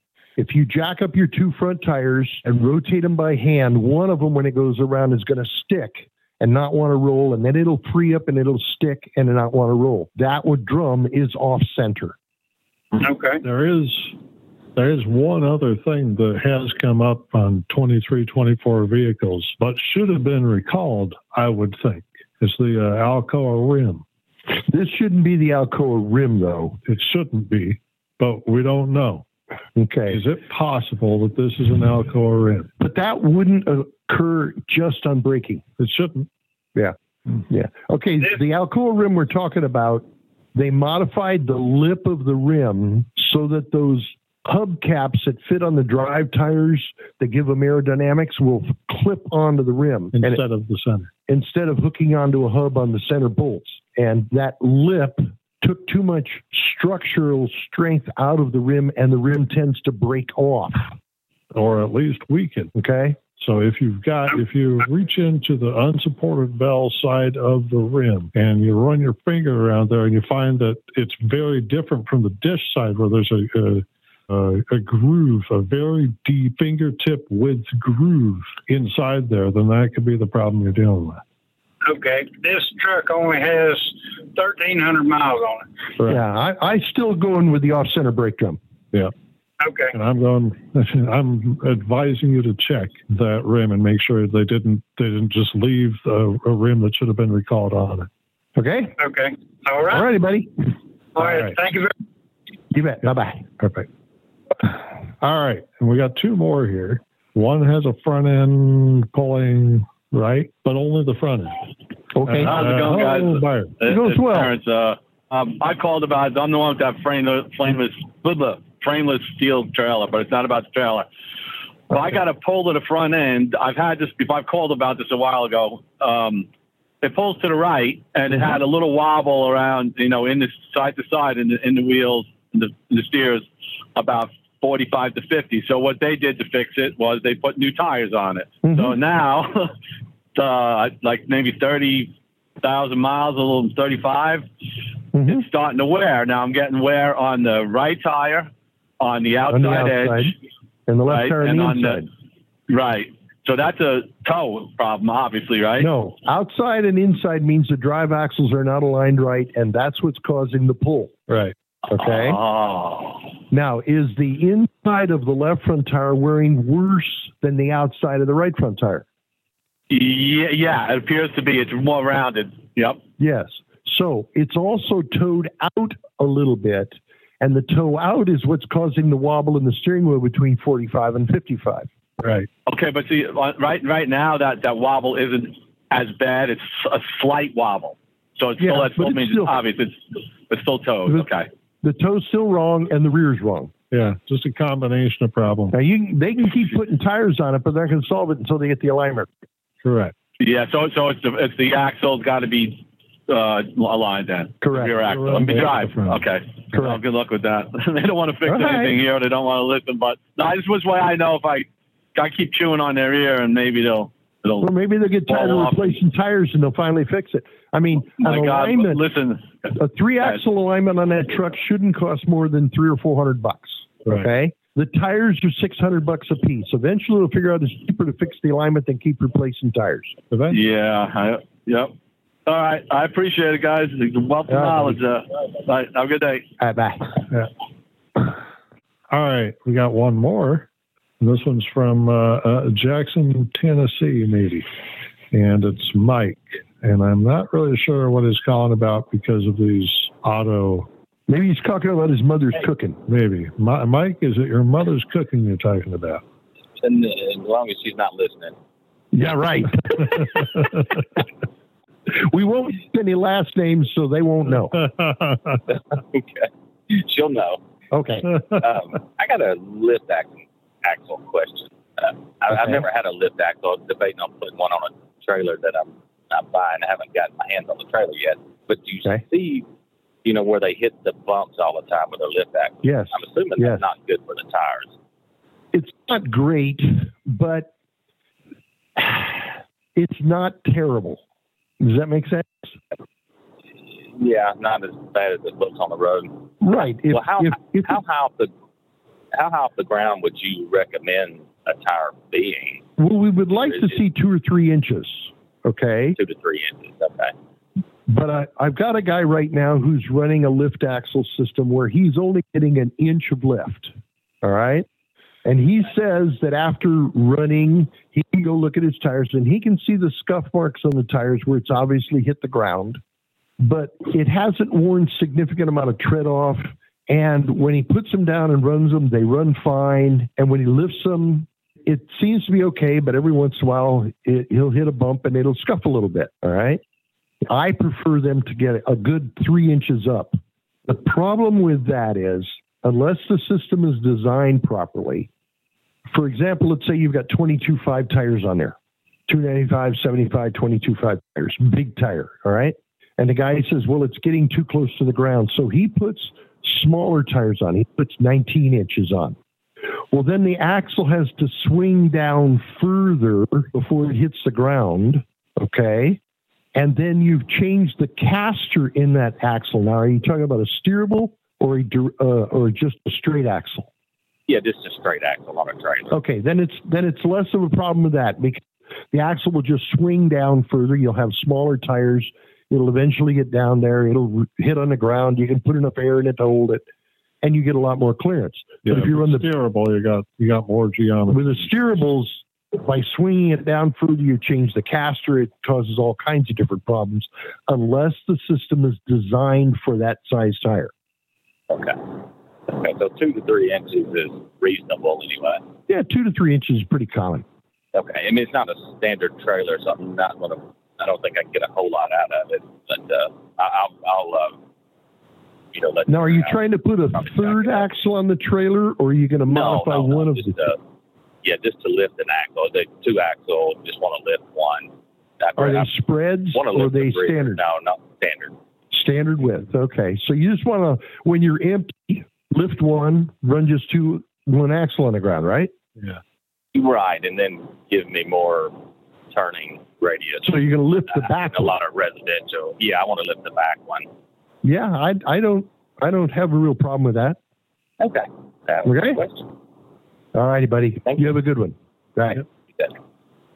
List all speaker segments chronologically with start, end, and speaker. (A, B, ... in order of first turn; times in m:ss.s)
0:00.4-0:12.2 A
0:13.0-0:13.4 B
0:13.4-0:14.1 C
0:14.7-0:24.0 C
0:24.7-0:26.8 A
0:26.8-0:29.2 C
0:29.8-0:30.2 A
0:30.1-0:32.7 C
0:32.8-0:35.6 A
0:35.8-0:36.3 C
0:37.4-0:50.4 A
0:50.1-0:51.1 C
0:51.3-1:00.9 A
1:01.5-1:02.7 C
1:02.7-1:03.2 A
1:03.4-1:21.2 C
1:21.8-1:25.7 B
1:26.0-1:28.6 A
1:29.6-1:29.9 B
1:29.9-1:38.1 C
1:38.6-1:39.0 A
1:39.0-1:40.1 B
1:39.9-1:40.5 A
1:41.1-1:41.9 B
1:41.2-1:41.6 C
1:42.7-1:43.4 A
1:43.6-1:43.9 C
1:44.6-1:51.6 C
1:52.2-1:52.5 A
1:52.2-1:53.8 C
1:52.4-2:01.1 D
1:53.8-1:54.5 A
2:01.9-2:06.5 D
2:07.0-2:19.7 D
2:18.6-2:19.0 A
2:20.3-2:24.5 D
2:25.1-2:25.4 A
2:25.2-2:28.5 D
2:29.0-2:30.3 D
2:29.5-2:30.3 A
2:30.9-2:32.1 A
2:31.1-2:32.0 D
2:32.7-2:35.9 D
2:35.8-2:41.1 A
2:41.3-2:41.5 C
2:41.9-2:42.4 A
2:41.9-2:43.3 D
2:43.5-2:49.0 A
2:49.9-2:53.0 D
2:53.2-3:01.9 A
3:02.2-3:02.5 C
3:02.7-3:11.5 D
3:08.6-3:09.6 A
3:11.8-3:13.7 A
3:13.9-3:15.8 C
3:15.7-3:19.3 A
3:19.8-3:20.1 C
3:20.4-3:34.7 D
3:24.6-3:25.0 A
3:25.0-3:26.2 C
3:26.7-3:27.0 A
3:28.4-3:29.0 A
3:34.6-3:39.0 A
3:35.3-3:35.9 D
3:38.2-3:39.7 D
3:39.7-3:50.2 A
3:50.3-3:50.6 C
3:50.5-3:51.9 D
3:52.4-3:56.4 D
3:54.5-3:55.0 A
3:56.6-3:57.1 A
3:59.1-4:00.7 C
4:01.2-4:04.7 C
4:05.3-4:10.9 C
4:11.3-4:13.0 A
4:13.1-4:16.2 C
4:16.8-4:18.5 E
4:19.1-4:20.4 A
4:22.1-4:24.8 A
4:24.7-4:25.6 C
4:25.7-4:27.6 E
4:27.9-4:28.3 A
4:28.6-4:39.6 E
4:32.5-4:32.8 A
4:40.2-4:44.9 E
4:42.8-4:43.8 A
4:45.7-4:47.7 A
4:49.0-4:51.2 A
4:51.8-4:52.8 A
4:54.1-4:56.5 E
4:56.6-4:58.0 A
4:57.1-4:58.5 E
4:59.3-5:02.8 E
5:03.0-5:06.2 A
5:03.6-5:04.0 E
5:06.2-5:07.3 E
5:08.1-5:14.8 A
5:15.4-5:23.0 A
5:23.6-5:36.8 A
5:37.4-5:45.3 A
5:46.1-5:48.8 A
5:49.3-5:59.4 A
6:00.1-6:06.2 A
6:06.7-6:13.9 A
6:14.5-6:16.1 E
6:16.1-6:26.8 A
6:27.4-6:29.5 A
6:28.8-6:31.7 C
6:31.3-6:40.9 A
6:41.7-6:42.1 E
6:42.7-6:45.6 E
6:45.9-6:47.4 A
6:47.9-6:54.6 E
6:55.7-6:56.6 E
6:56.1-7:00.6 A
6:57.1-6:57.8 E
6:59.5-7:00.8 E
7:01.4-7:05.9 E
7:05.6-7:07.6 A
7:06.5-7:08.5 E
7:08.9-7:15.7 A
7:16.7-7:18.7 E
7:19.3-7:20.5 E
7:20.4-7:21.8 A
7:21.1-7:24.1 E
7:24.6-7:27.4 A
7:28.0-7:29.4 E
7:28.8-7:29.2 A
7:30.3-7:32.4 A